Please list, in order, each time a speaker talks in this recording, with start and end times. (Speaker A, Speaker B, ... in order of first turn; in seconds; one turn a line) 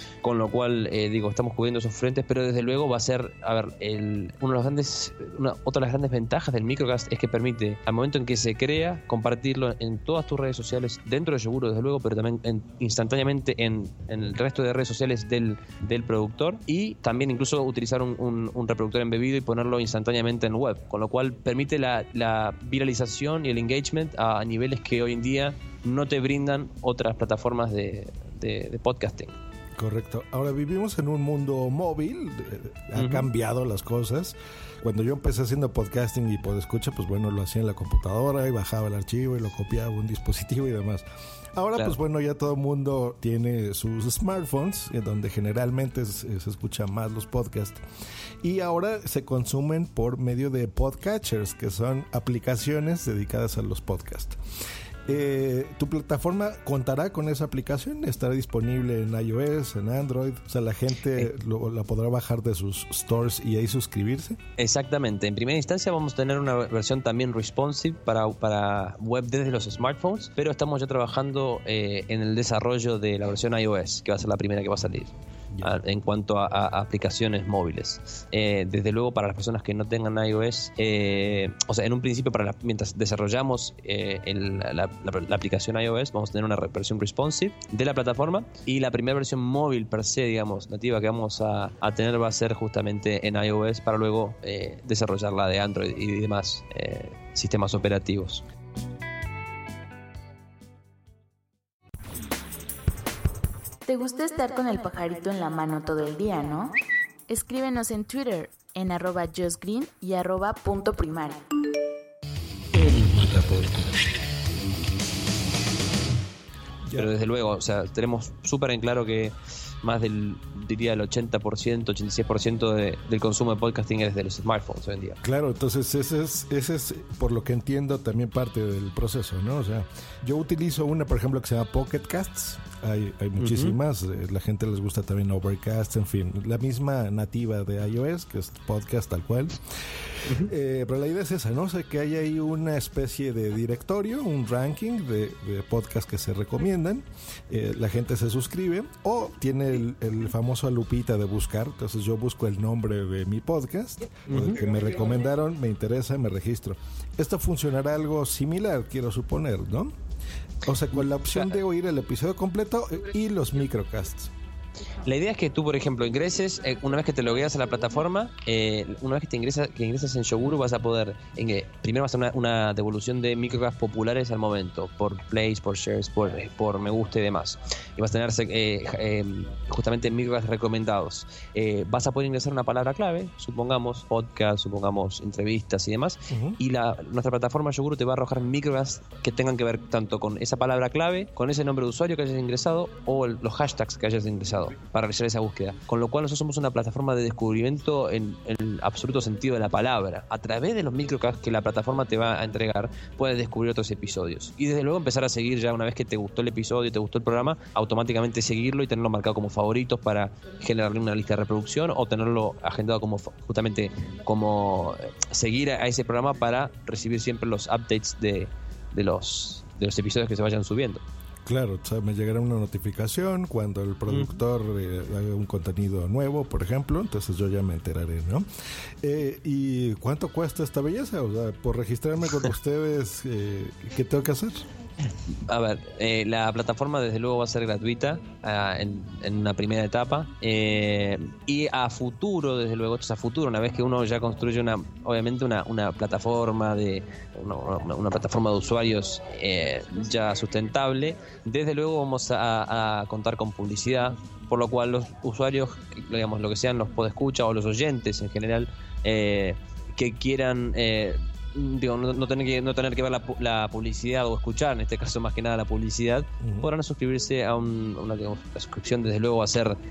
Speaker A: 0.2-29.4
Speaker B: 29.8-47.8
Speaker A: 32.9-33.3
Speaker B: 48.4-54.4
Speaker B: 55.0-64.4
Speaker A: 64.6-98.4
Speaker C: 103.8-106.8
Speaker C: 107.3-111.5
Speaker B: 112.7-114.1
Speaker A: 116.9-125.2
Speaker B: 125.2-139.6
Speaker A: 133.4-133.8
Speaker B: 140.3-159.9
Speaker A: 154.3-154.6
Speaker B: 160.6-164.3
Speaker A: 161.3-161.6
Speaker A: 165.0-221.0
Speaker B: 186.3-186.6
Speaker B: 221.4-228.5
Speaker A: 224.1-224.3
Speaker B: 229.0-234.7
Speaker A: 235.3-269.8
Speaker B: 266.4-266.7